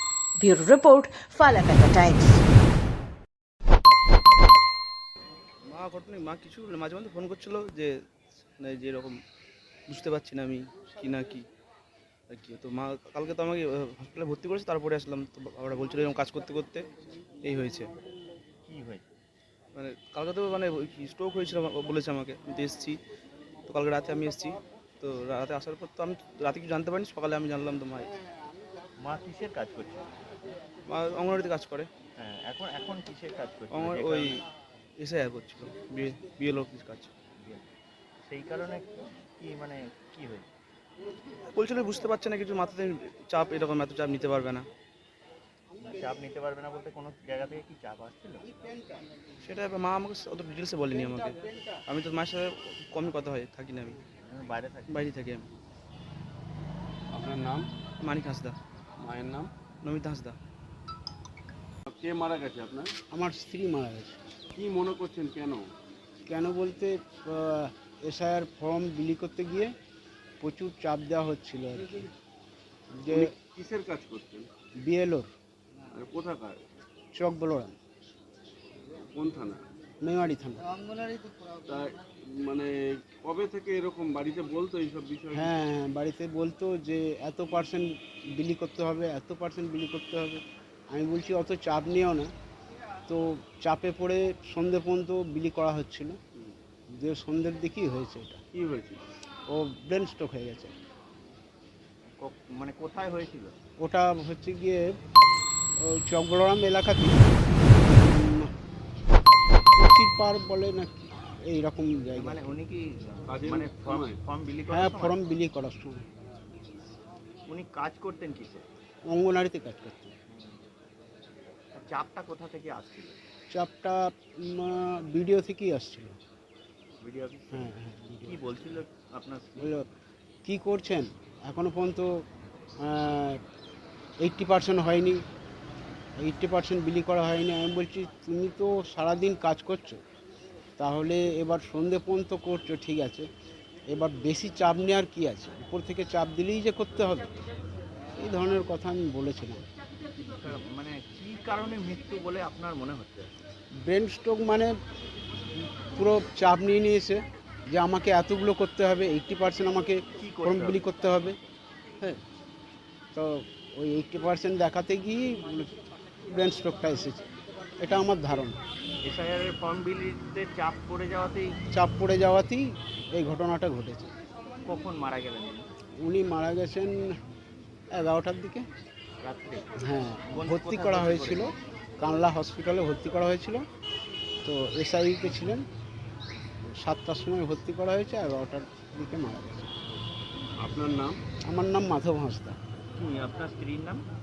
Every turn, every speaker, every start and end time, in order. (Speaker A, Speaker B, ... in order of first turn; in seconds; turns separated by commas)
Speaker A: 0.4-2.4, Speaker B: 5.7-7.9, Speaker B: 8.6-9.2, Speaker B: 9.9-11.4, Speaker B: 12.3-16.9, Speaker B: 17.4-17.9, Speaker C: 18.6-19.1, Speaker B: 19.7-23.0, Speaker B: 23.7-28.1, Speaker C: 29.0-30.1, Speaker B: 30.9-31.9, Speaker C: 32.2-34.4, Speaker B: 33.7-34.4, Speaker B: 35.0-37.1, Speaker C: 37.4-37.6, Speaker C: 38.2-40.5, Speaker B: 41.5-44.6, Speaker C: 45.8-48.5, Speaker B: 49.4-54.0, Speaker C: 54.2-55.1, Speaker B: 54.9-55.5, Speaker D: 57.1-57.7, Speaker B: 58.0-58.6, Speaker D: 59.0-59.5, Speaker B: 59.8-60.4, Speaker D: 61.9-62.9, Speaker E: 63.1-64.2, Speaker D: 64.5-65.7, Speaker E: 66.2-69.7, Speaker E: 70.4-72.0, Speaker E: 73.0-73.3, Speaker D: 73.1-74.5, Speaker E: 74.8-75.3, Speaker D: 75.9-76.6, Speaker E: 77.1-77.8, Speaker D: 79.1-79.6, Speaker E: 80.0-80.6, Speaker D: 81.6-85.6, Speaker E: 85.3-92.3, Speaker E: 93.1-96.2, Speaker E: 97.0-98.4, Speaker D: 98.5-99.0, Speaker E: 99.5-100.7, Speaker C: 102.2-103.5, Speaker E: 103.8-104.9, Speaker E: 105.8-108.5, Speaker E: 109.7-112.5, Speaker C: 112.1-115.2, Speaker D: 113.3-114.2, Speaker E: 114.7-116.0, Speaker C: 117.5-118.6, Speaker E: 119.1-120.1, Speaker C: 120.3-120.6, Speaker C: 121.7-123.2, Speaker E: 123.5-126.2, Speaker C: 127.0-129.8, Speaker E: 127.5-128.7, Speaker E: 129.6-129.8, Speaker E: 130.4-132.2, Speaker E: 132.8-133.4, Speaker E: 134.2-135.2, Speaker E: 136.2-140.0, Speaker E: 140.8-143.3, Speaker E: 143.9-147.3, Speaker E: 148.2-149.6, Speaker C: 150.2-153.3, Speaker E: 153.8-154.7, Speaker E: 155.8-161.4, Speaker C: 160.2-161.3, Speaker E: 163.1-165.7, Speaker E: 166.3-167.3, Speaker E: 167.8-168.6, Speaker C: 169.0-171.6, Speaker E: 171.7-174.1, Speaker C: 174.6-175.7, Speaker E: 176.0-177.2, Speaker E: 177.9-178.7, Speaker C: 179.2-179.7, Speaker E: 179.8-183.6, Speaker C: 180.3-181.5, Speaker E: 184.4-185.7, Speaker E: 186.7-189.8, Speaker D: 190.6-191.2, Speaker E: 191.5-192.6, Speaker C: 192.9-194.0